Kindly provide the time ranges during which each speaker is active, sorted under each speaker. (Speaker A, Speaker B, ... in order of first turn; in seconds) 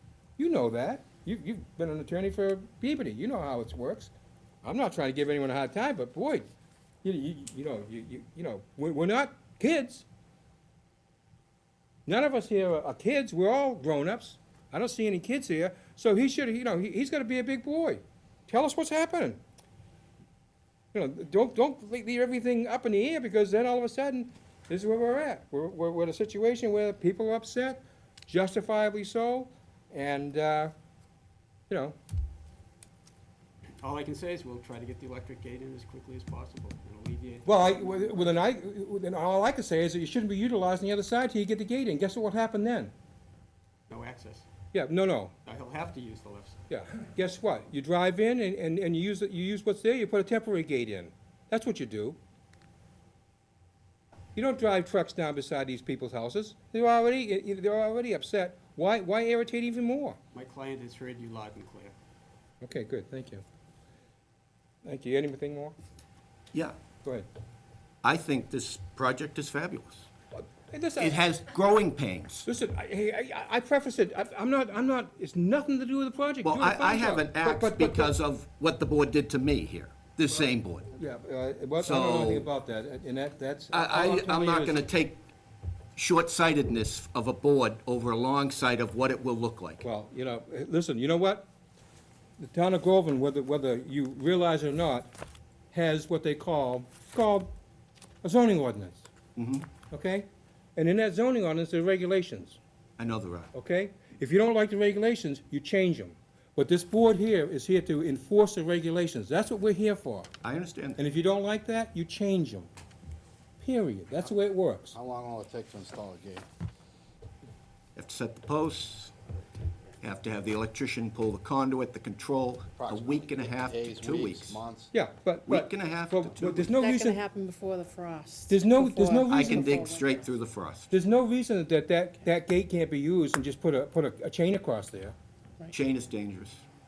Speaker A: 0.4-4.1, 4.6-6.5, 7.0-10.0, 12.1-19.4, 20.9-30.7, 31.7-31.9, 37.4-42.9, 44.7-45.3, 46.7-52.2, 54.3-60.2, 62.6-63.4, 64.8-65.7, 70.7-71.2, 72.5-78.1, 80.9-84.8, 89.8-91.5, 92.4-95.1, 95.7-97.5, 98.2-99.1, 99.9-102.6, 103.5-110.3, 111.0-112.7, 113.6-115.0, 124.9-127.2, 128.5-129.7, 130.9-135.1
Speaker B: 33.8-37.5, 43.9-44.4, 45.4-46.6, 60.3-61.9
Speaker C: 68.0-70.1, 71.0-72.5, 76.4-80.9, 81.8-82.5, 83.7-85.2, 86.0-89.8, 99.3-99.7, 103.0-103.5, 110.4-111.0, 118.0-119.1, 120.0-124.6, 125.5-126.8, 129.3-130.9, 135.7-136.6
Speaker D: 114.9-116.5, 122.7-124.9
Speaker E: 126.7-130.3